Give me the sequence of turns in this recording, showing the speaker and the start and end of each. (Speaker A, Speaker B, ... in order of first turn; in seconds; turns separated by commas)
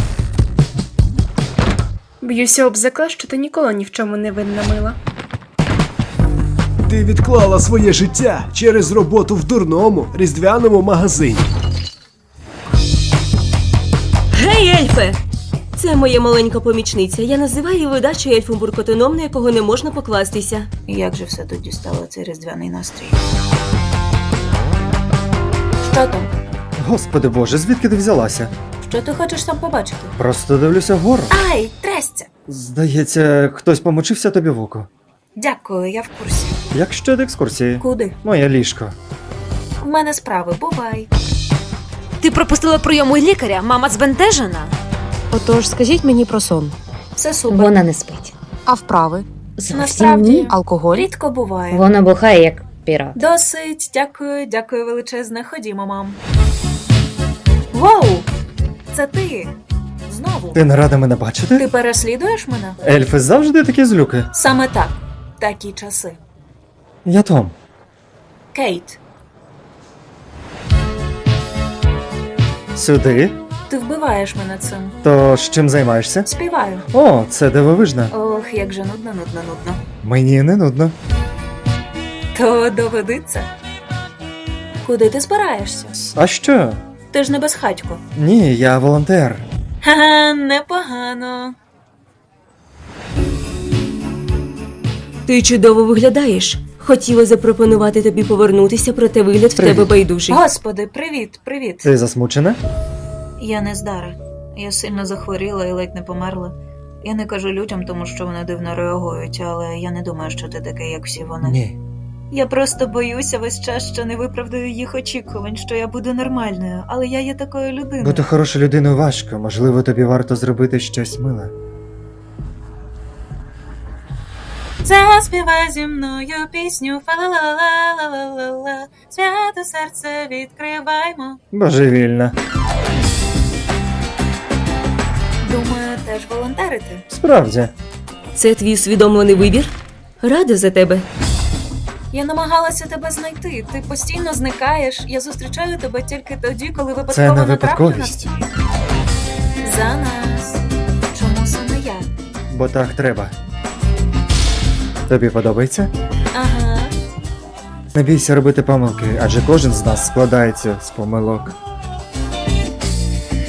Speaker A: 2.2-5.0, Speaker B: 6.8-11.5, Speaker C: 14.3-15.2, Speaker C: 15.7-20.7, Speaker D: 20.9-23.2, Speaker D: 25.8-26.3, Speaker E: 26.8-28.5, Speaker D: 28.8-30.1, Speaker E: 30.2-31.3, Speaker D: 31.3-32.3, Speaker E: 32.5-34.9, Speaker D: 35.4-36.5, Speaker E: 36.7-39.0, Speaker D: 37.8-38.1, Speaker D: 39.8-41.1, Speaker F: 42.2-44.7, Speaker G: 45.3-46.7, Speaker D: 47.1-47.8, Speaker H: 47.5-48.3, Speaker G: 48.7-49.2, Speaker H: 49.6-50.5, Speaker D: 49.7-51.9, Speaker G: 50.5-51.1, Speaker H: 51.7-53.2, Speaker D: 53.1-56.2, Speaker D: 57.7-58.3, Speaker D: 58.9-59.5, Speaker D: 60.0-60.6, Speaker E: 60.5-61.6, Speaker D: 61.6-62.8, Speaker E: 62.8-64.3, Speaker D: 64.3-66.2, Speaker E: 67.0-67.5, Speaker D: 68.5-69.0, Speaker E: 72.7-73.4, Speaker D: 73.7-75.0, Speaker E: 75.0-76.3, Speaker D: 76.2-76.8, Speaker E: 76.9-78.1, Speaker D: 78.1-79.8, Speaker E: 80.0-80.9, Speaker D: 82.3-83.5, Speaker D: 84.8-86.0, Speaker E: 86.0-86.8, Speaker D: 87.1-88.0, Speaker E: 88.2-89.4, Speaker D: 89.8-91.5, Speaker C: 95.2-100.4, Speaker E: 99.6-99.9, Speaker D: 100.3-101.9, Speaker E: 101.8-102.6, Speaker D: 103.4-111.6, Speaker E: 111.4-111.8, Speaker D: 112.3-118.3, Speaker E: 118.0-121.5, Speaker D: 124.8-131.4, Speaker E: 131.5-132.3, Speaker D: 135.4-137.0, Speaker E: 137.1-137.7, Speaker C: 138.3-141.0, Speaker D: 142.1-148.3, Speaker E: 147.1-148.3, Speaker D: 149.6-150.6, Speaker D: 151.1-152.1, Speaker E: 152.5-153.3, Speaker E: 155.1-155.9, Speaker D: 156.3-156.9, Speaker E: 157.9-161.5